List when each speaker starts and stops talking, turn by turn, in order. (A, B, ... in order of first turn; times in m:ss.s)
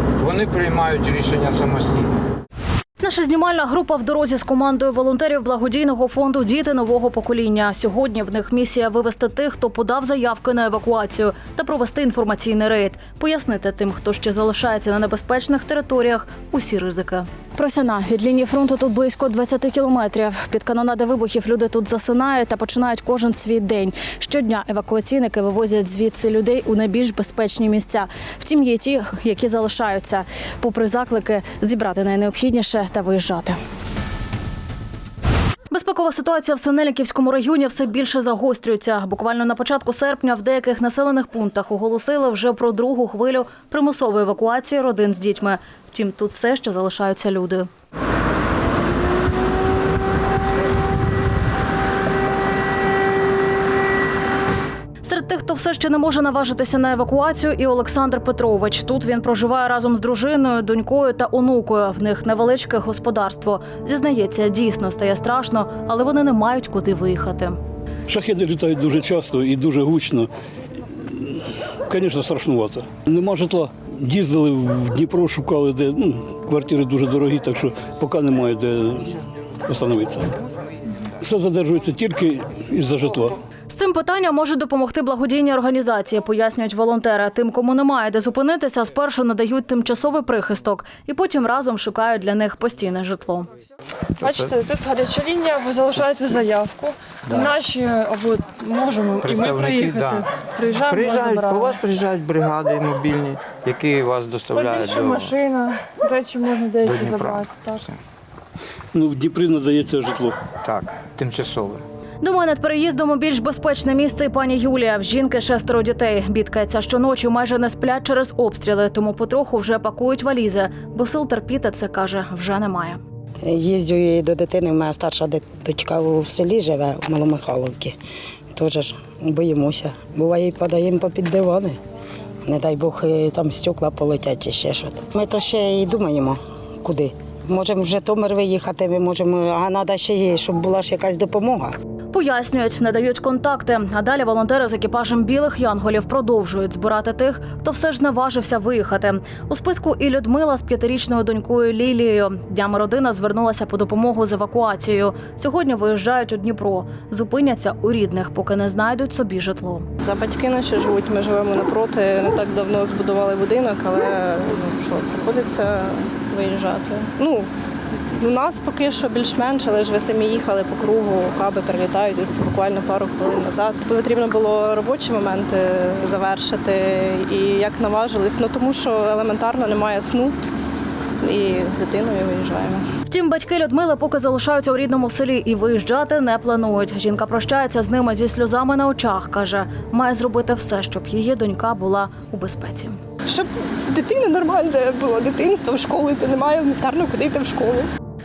0:00.2-0:02.1 A
0:03.0-0:33.6 B
0:35.7-0:47.7 B
0:55.0-1:07.6 B
1:08.1-1:10.3 C
1:10.9-1:20.3 C
1:21.2-1:23.4 C
1:23.7-1:33.5 B
1:34.2-1:41.8 D
1:34.2-1:34.5 A
1:37.3-1:37.5 A
1:39.2-1:45.4 A
1:44.5-1:47.8 D
1:46.8-1:48.0 A
1:48.9-1:50.4 C
1:50.6-1:51.8 A
1:52.2-2:03.0 B
2:03.4-2:08.0 E
2:08.5-2:11.8 E
2:12.4-2:21.7 E
2:22.1-2:39.9 B
2:40.0-2:47.5 F
2:48.2-3:00.4 F
3:01.2-3:02.8 F
3:03.1-3:13.0 B
3:13.2-3:17.9 F